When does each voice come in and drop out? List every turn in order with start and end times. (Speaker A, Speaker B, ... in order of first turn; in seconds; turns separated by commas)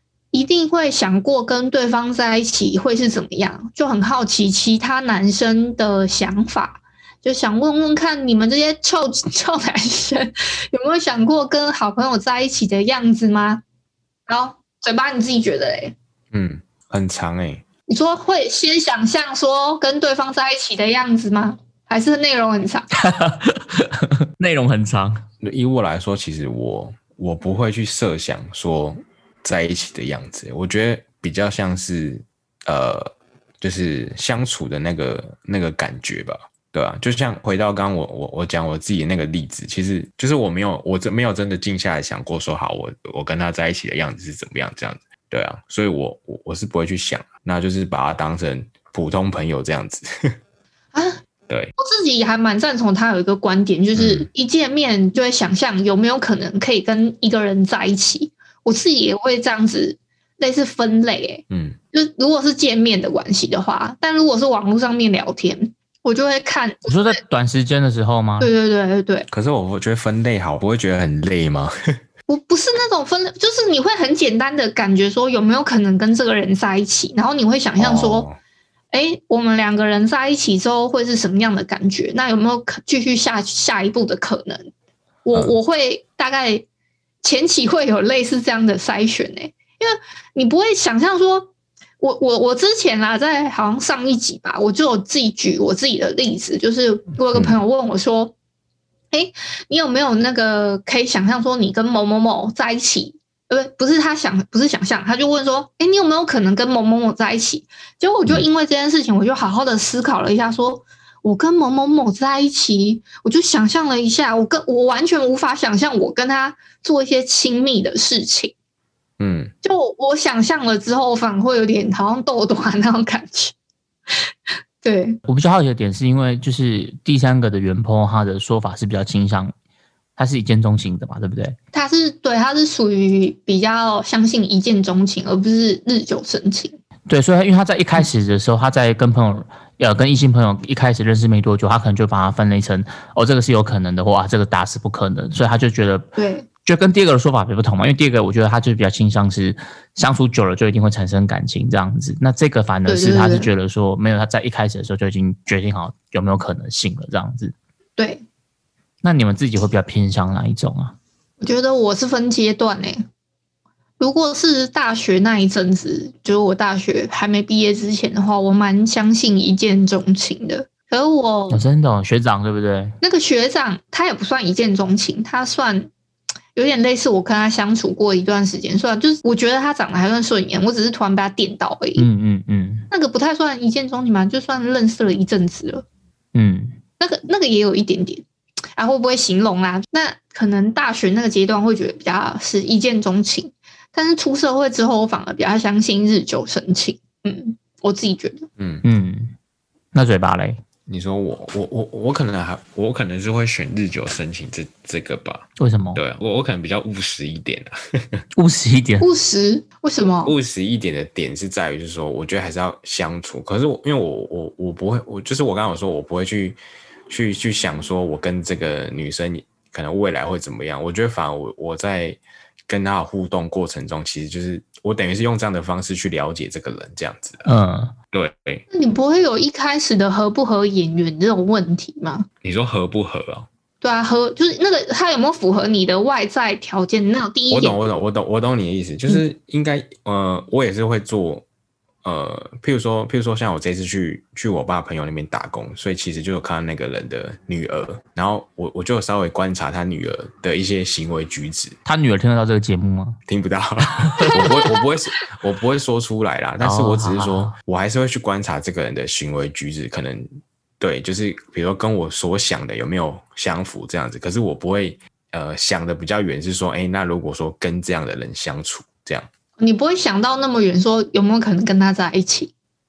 Speaker A: 0.3-13.6, Speaker A: 14.3-15.9, Speaker B: 16.3-17.6, Speaker A: 17.9-22.9, Speaker C: 23.0-25.2, Speaker B: 25.4-50.3, Speaker A: 50.9-51.2, Speaker A: 51.8-67.2, Speaker B: 54.0-54.3, Speaker B: 61.5-61.8, Speaker C: 66.9-68.5, Speaker A: 68.4-69.3, Speaker B: 69.3-72.0, Speaker A: 72.3-78.3, Speaker B: 77.8-78.4, Speaker A: 78.9-84.7, Speaker A: 85.2-86.7, Speaker A: 87.2-98.3, Speaker A: 99.1-118.5, Speaker B: 119.2-119.5, Speaker A: 119.6-123.5, Speaker A: 124.8-125.2, Speaker C: 125.3-129.5, Speaker C: 130.2-131.6, Speaker A: 131.7-136.8, Speaker C: 137.1-146.1, Speaker A: 146.2-146.4, Speaker C: 146.6-157.5, Speaker A: 152.9-153.5, Speaker A: 158.0-158.2, Speaker C: 159.0-160.9, Speaker A: 161.4-163.0, Speaker A: 164.0-171.6, Speaker C: 171.5-172.9, Speaker A: 173.0-175.9, Speaker A: 176.5-182.1, Speaker C: 182.0-182.9, Speaker A: 182.9-185.8, Speaker C: 186.3-186.8, Speaker A: 187.0-188.2, Speaker A: 188.8-198.5, Speaker B: 198.6-198.8, Speaker C: 198.8-199.3, Speaker C: 199.9-200.6, Speaker B: 200.9-208.2, Speaker C: 205.6-206.0, Speaker C: 208.3-209.1, Speaker A: 209.0-210.3, Speaker B: 210.2-216.6, Speaker B: 217.1-227.4, Speaker C: 227.4-227.9, Speaker B: 228.1-228.6, Speaker A: 228.7-232.3, Speaker B: 232.4-233.5, Speaker A: 233.8-237.8, Speaker B: 237.5-241.4, Speaker B: 242.0-251.8, Speaker C: 251.8-253.2, Speaker B: 253.3-260.3, Speaker C: 253.8-254.4, Speaker C: 256.6-257.6, Speaker B: 260.8-269.3, Speaker A: 269.6-272.5